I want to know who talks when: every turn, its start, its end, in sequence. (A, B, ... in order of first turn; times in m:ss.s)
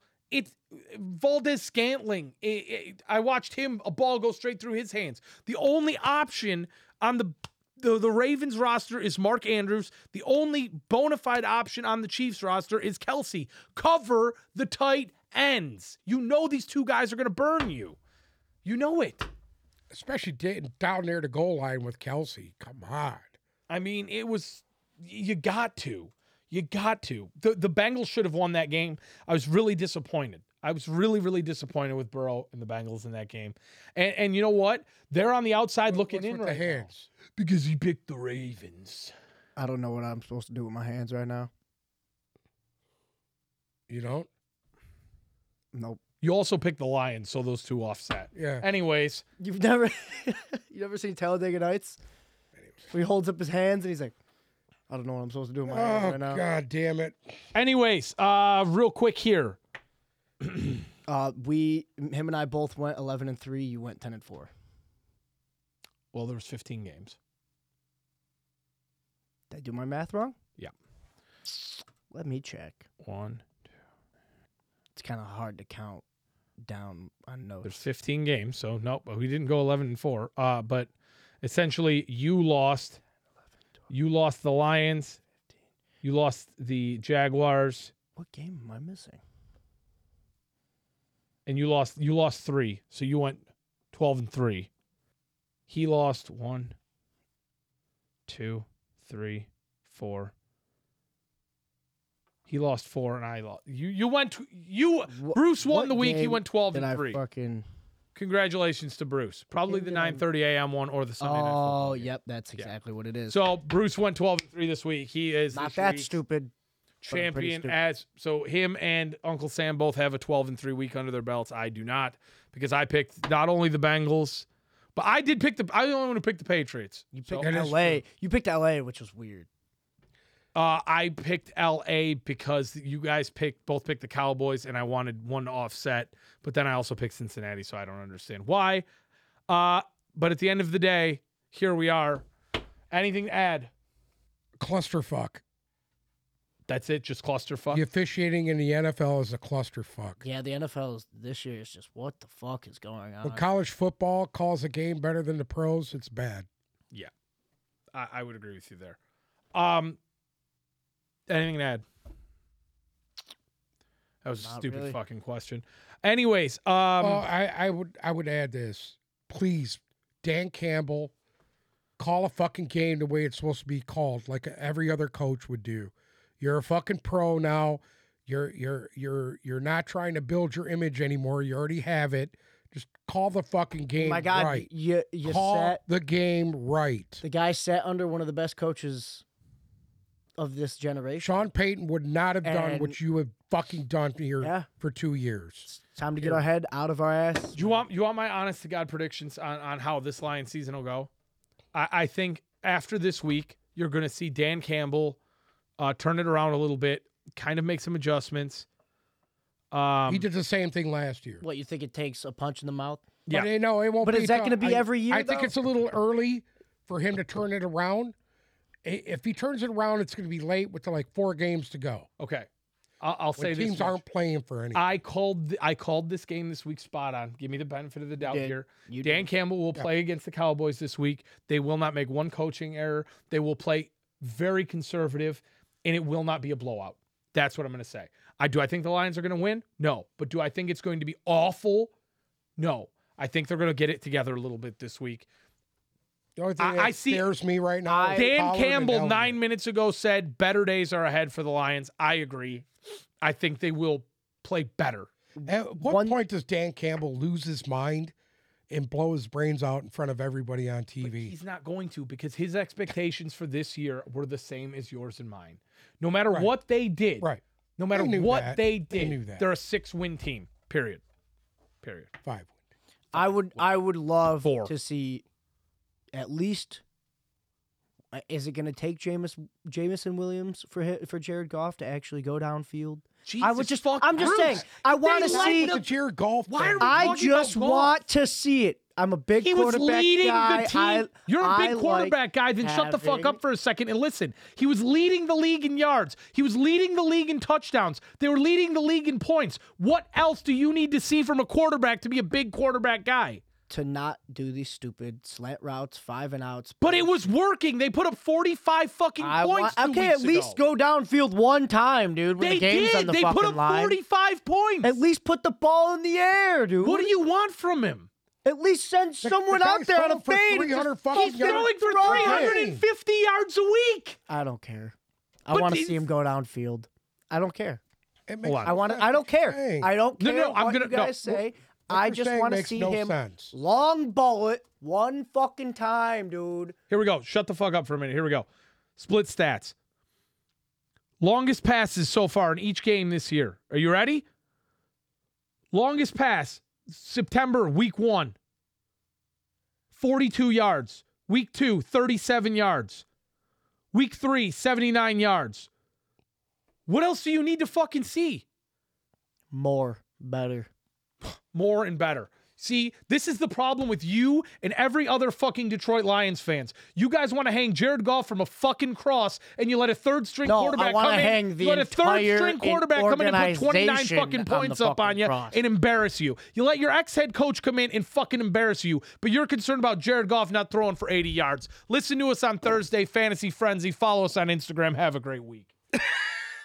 0:00.3-0:18.0 A
0:18.6-0:19.3 A
0:19.9-0:23.3 B
0:23.7-0:39.1 A
0:35.9-0:37.1 B
0:39.6-0:41.5 C
0:43.9-0:44.3 B
0:45.7-0:46.0 C
0:46.2-0:49.2 A
0:48.4-0:48.6 B
0:49.4-0:52.0 C
0:52.9-0:54.2 C
0:54.9-0:56.4 C
0:55.7-0:57.3 B
0:57.5-0:59.6 A
1:00.4-1:00.8 A
1:01.1-1:04.5 C
1:06.1-1:07.2 A
1:09.5-1:10.4 C
1:12.1-1:12.9 C
1:13.0-1:13.4 A
1:15.0-1:16.0 C
1:16.6-1:17.8 C
1:17.6-1:20.9 A
1:21.4-1:23.0 A
1:23.9-1:25.2 A
1:26.0-1:27.9 A
1:28.2-1:29.2 C
1:31.5-1:33.4 A
1:33.9-1:34.7 A
1:35.7-1:36.8 A
1:38.3-1:40.3 A
1:42.5-1:47.2 A
1:45.1-1:47.7 C
1:48.2-1:52.7 A
1:49.7-1:50.2 C
1:51.2-1:53.4 C
1:53.3-1:56.2 A
1:55.5-1:56.5 C
1:57.0-2:07.6 A
1:57.1-1:57.8 C
2:07.1-2:09.5 C
2:07.4-2:08.0 B
2:10.6-2:18.8 A
2:19.5-2:22.3 A
2:22.9-2:23.7 A
2:24.6-2:25.4 B
2:26.7-2:27.8 A
2:27.7-2:30.2 B
2:30.2-2:33.4 C
2:33.2-2:36.5 B
2:37.9-2:39.0 A
2:39.5-2:40.0 A
2:41.3-2:41.8 A
2:44.2-2:47.2 A
2:44.4-2:45.0 C
2:47.0-2:51.1 B
2:52.0-3:04.7 B
3:04.0-3:05.8 C
3:05.2-3:07.2 B
3:07.2-3:09.2 C
3:10.4-3:11.4 C
3:11.2-3:15.7 B
3:12.4-3:13.0 C
3:14.4-3:14.7 C
3:15.7-3:17.7 C
3:17.6-3:21.1 A
3:21.7-3:25.2 A
3:25.8-3:28.7 A
3:29.7-3:30.3 A
3:30.1-3:31.4 B
3:31.4-3:33.1 C
3:33.3-3:38.2 B
3:34.0-3:35.6 C
3:38.8-3:42.1 B
3:42.2-3:42.5 A
3:43.0-3:44.0 A
3:43.4-3:44.8 B
3:44.8-4:01.9 A
3:48.2-3:49.3 C
4:02.6-4:05.3 A
4:06.4-4:09.4 B
4:06.6-4:07.3 A
4:07.9-4:08.3 C
4:08.1-4:12.7 A
4:13.2-4:15.1 A
4:15.4-4:16.2 C
4:15.5-4:18.1 B
4:18.7-4:21.3 B
4:21.0-4:31.0 A
4:27.9-4:29.5 B
4:31.8-4:32.1 A
4:32.2-4:32.5 B
4:33.1-4:33.6 A
4:33.1-4:35.2 C
4:34.4-4:34.7 A
4:36.1-4:36.8 C
4:38.1-4:45.8 C
4:43.3-4:45.9 A
4:44.8-4:47.2 B
4:46.5-4:48.0 A
4:46.8-4:53.4 C
4:49.4-5:03.4 A
5:03.7-5:07.1 C
5:06.8-5:10.6 A
5:09.2-5:14.0 C
5:12.4-5:15.0 A
5:14.8-5:17.1 C
5:16.8-5:18.1 A
5:18.4-5:22.6 C
5:19.2-5:22.8 B
5:21.1-5:24.2 A
5:24.3-5:27.8 C
5:25.5-5:26.0 A
5:28.3-5:29.9 B
5:28.4-5:28.8 A
5:28.6-5:36.8 C
5:30.2-5:31.2 A
5:31.2-5:33.5 B
5:36.9-5:38.5 A
5:39.0-5:39.7 A
5:41.2-5:44.2 A
5:45.7-5:48.4 A
5:49.9-5:53.0 A
5:53.9-5:55.7 A
5:56.9-5:58.4 A
5:59.5-6:00.7 C
6:01.5-6:25.7 A
6:10.4-6:15.6 C